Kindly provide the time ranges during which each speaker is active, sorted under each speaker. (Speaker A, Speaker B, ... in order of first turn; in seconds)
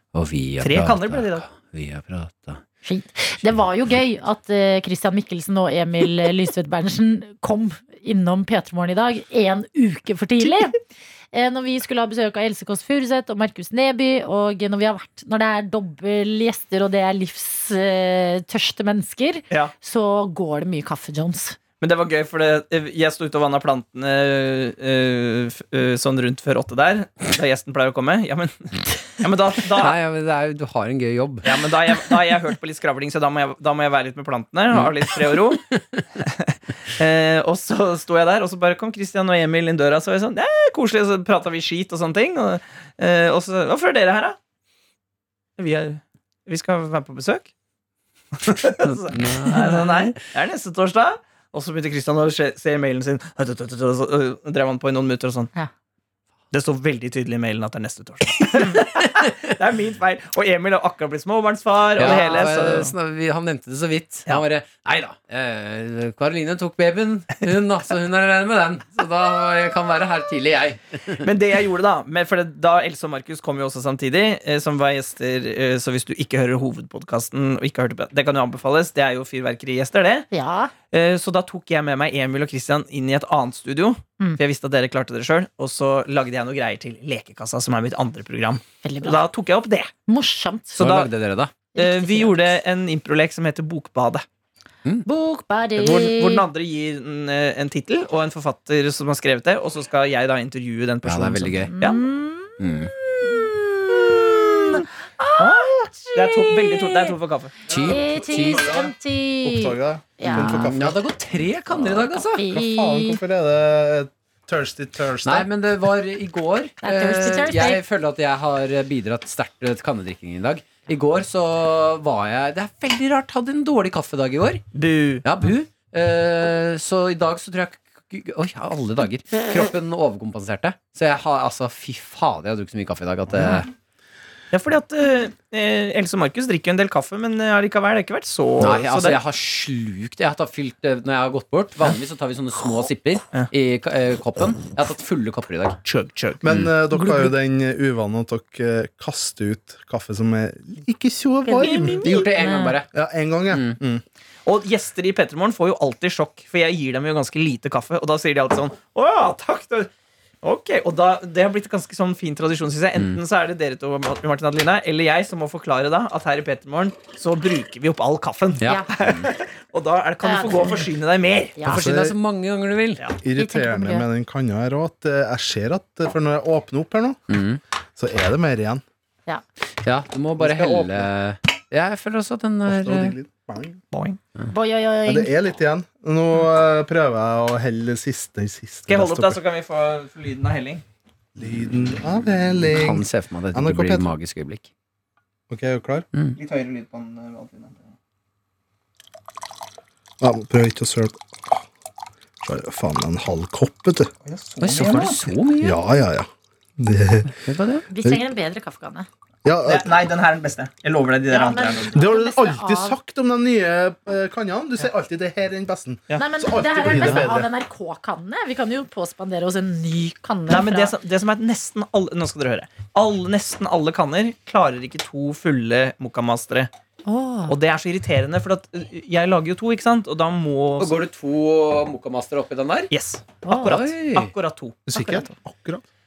Speaker A: 0.1-2.6, 29.8-31.5, 35.7-36.0, 48.8-50.2, 62.0-71.3, 90.7-91.5, 101.0-101.7, 102.6-102.9, 107.7-108.7, 110.2-112.5, 115.2-124.6, 125.2-133.7, 138.6-145.8, 152.0-152.9, 153.5-153.8, 168.6-169.3, 171.7-173.0, 177.3-177.6, 179.8-183.2, 192.7-194.7, 204.6-205.8, 207.4-207.8, 230.8-232.9, 233.6-234.3
Speaker B: 0.6-1.4, 21.8-30.0, 31.4-35.6, 36.2-44.4, 45.6-47.5, 48.4-55.5, 56.5-62.9, 71.2-80.3, 80.9-89.9, 90.8-91.1, 91.7-94.2, 95.8-102.0, 105.4-107.5, 124.7-125.2, 134.5-139.2, 145.8-146.4, 151.6-152.2, 154.4-159.9, 160.4-171.6, 183.9-184.2, 188.9-190.8, 196.3-197.9, 204.2-205.2, 209.6-212.0, 220.5-226.7, 227.5-231.0, 232.9-235.3
Speaker C: 2.8-10.8, 11.3-21.6, 80.3-80.7, 88.8-89.2, 90.1-90.8, 91.7-92.6, 95.0-96.4, 101.5-107.1, 107.8-110.8, 111.8-113.2, 116.8-117.8, 146.9-147.3, 151.4-152.8, 168.7-168.9, 170.2-170.9, 171.6-171.8, 173.3-174.1, 184.5-185.4, 207.9-209.1, 211.3-213.0, 216.2-220.9, 227.0-227.5, 233.4-233.7
Speaker D: 107.8-111.0, 112.5-115.5, 146.4-152.0, 152.9-154.0, 171.7-172.2, 173.2-177.2, 177.9-178.8, 180.4-181.1, 182.6-183.8, 185.1-189.4, 191.3-194.1, 195.5-196.1, 200.2-201.6, 202.4-204.1, 204.7-206.3, 206.8-207.3, 209.4-210.0, 211.9-217.5, 234.9-235.8